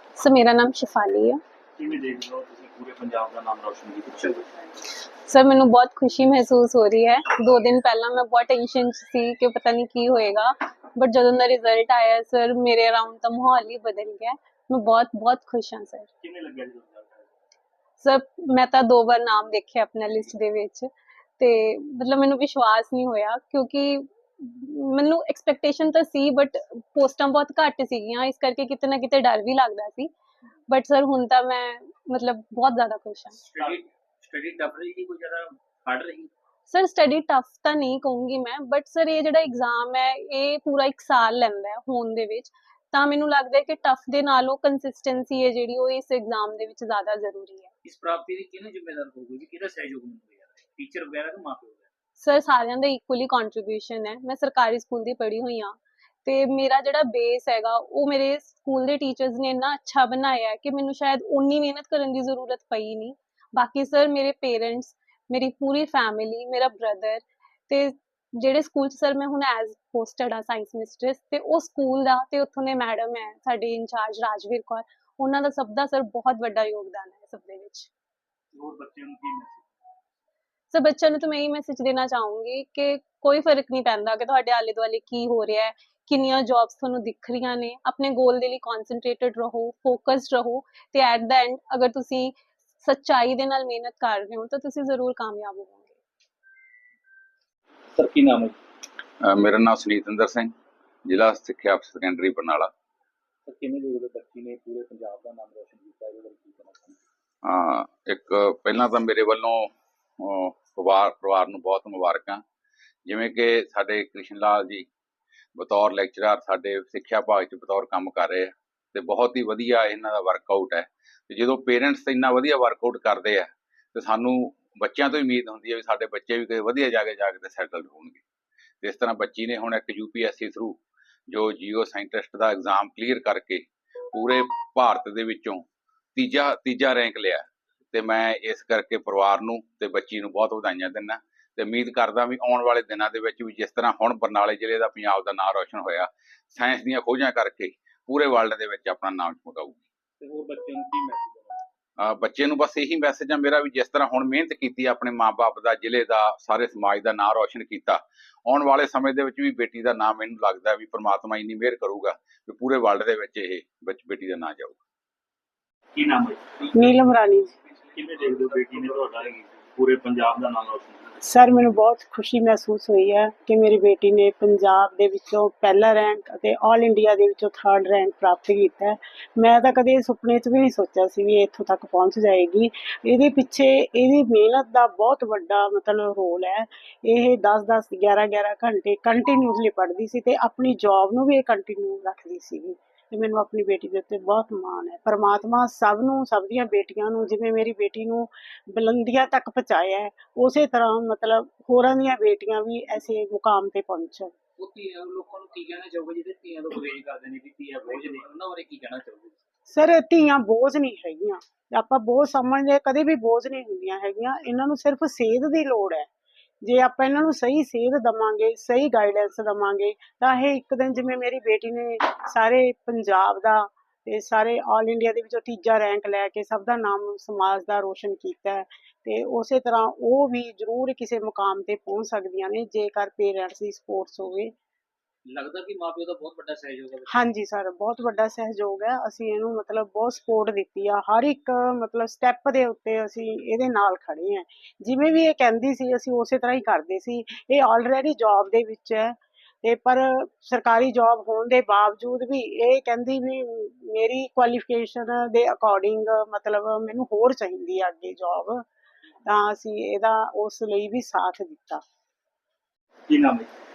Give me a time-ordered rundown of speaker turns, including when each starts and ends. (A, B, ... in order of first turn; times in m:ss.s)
0:00.2-0:01.4 A
0:01.8-0:04.4 B
0:05.3-0:16.1 A
0:16.2-0:17.3 B
0:18.0-0:30.1 A
0:30.7-0:33.4 A
0:33.3-0:36.3 B
0:36.7-0:47.7 A
0:47.8-0:51.8 B
0:52.2-1:17.9 A
1:18.5-1:19.7 B
1:20.7-1:36.0 A
1:38.0-1:38.6 B
1:39.2-1:40.5 C
1:41.1-1:42.7 C
1:43.5-1:47.0 B
1:47.4-1:52.4 C
1:53.1-1:54.9 C
1:55.6-2:08.2 C
2:08.8-2:29.8 C
2:30.2-2:31.6 B
2:32.0-2:44.8 C
2:46.0-2:46.7 B
2:46.7-2:47.5 D
2:47.9-2:51.1 B
2:51.2-3:24.3 D
3:24.6-3:29.4 B
3:29.7-3:36.1 D
3:36.6-3:54.5 D
3:55.3-3:57.2 B
3:57.1-4:18.7 D
4:19.2-4:21.8 D
4:23.1-4:23.5 B